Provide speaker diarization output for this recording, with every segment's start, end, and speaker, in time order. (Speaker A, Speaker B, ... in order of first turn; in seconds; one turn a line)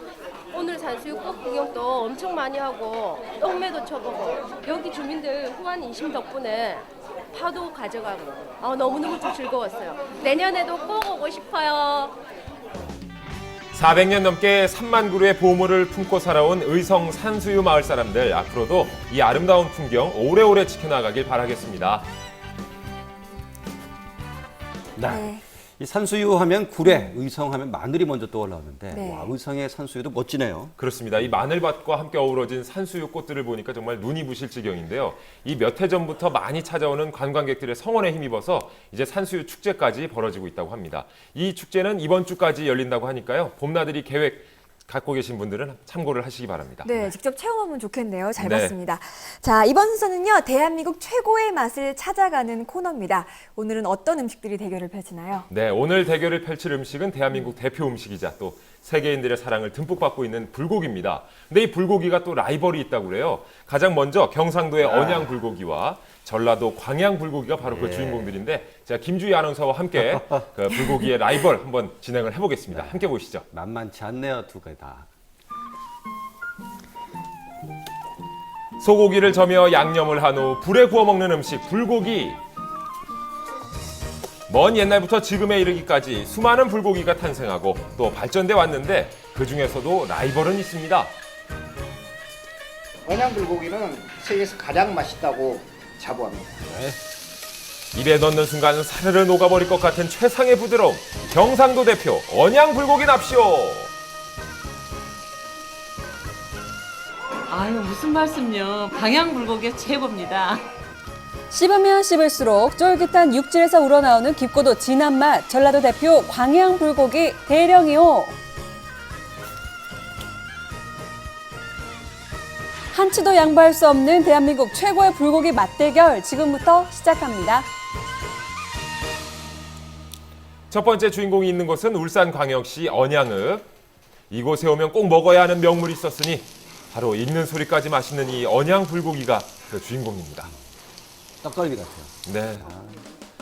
Speaker A: 0.5-12.2
Speaker B: 13.7-22.1
Speaker C: 25.0-30.7
Speaker D: 25.1-25.4
Speaker D: 28.9-29.3
Speaker B: 30.8-47.1
Speaker D: 46.8-55.5
Speaker B: 48.4-48.8
Speaker B: 55.5-73.5
Speaker C: 64.8-65.4
Speaker C: 67.6-68.4
Speaker C: 70.0-70.2
Speaker C: 72.7-75.1
Speaker B: 78.8-82.4
Speaker B: 84.5-91.1
Speaker E: 93.1-96.7
Speaker C: 96.7-97.0
Speaker B: 97.9-103.9
Speaker F: 107.5-110.6
Speaker G: 111.5-118.4
Speaker G: 122.9-127.7
Speaker B: 130.7-133.7
Speaker B: 134.3-140.5
Speaker C: 141.4-143.0
Speaker B: 142.2-142.7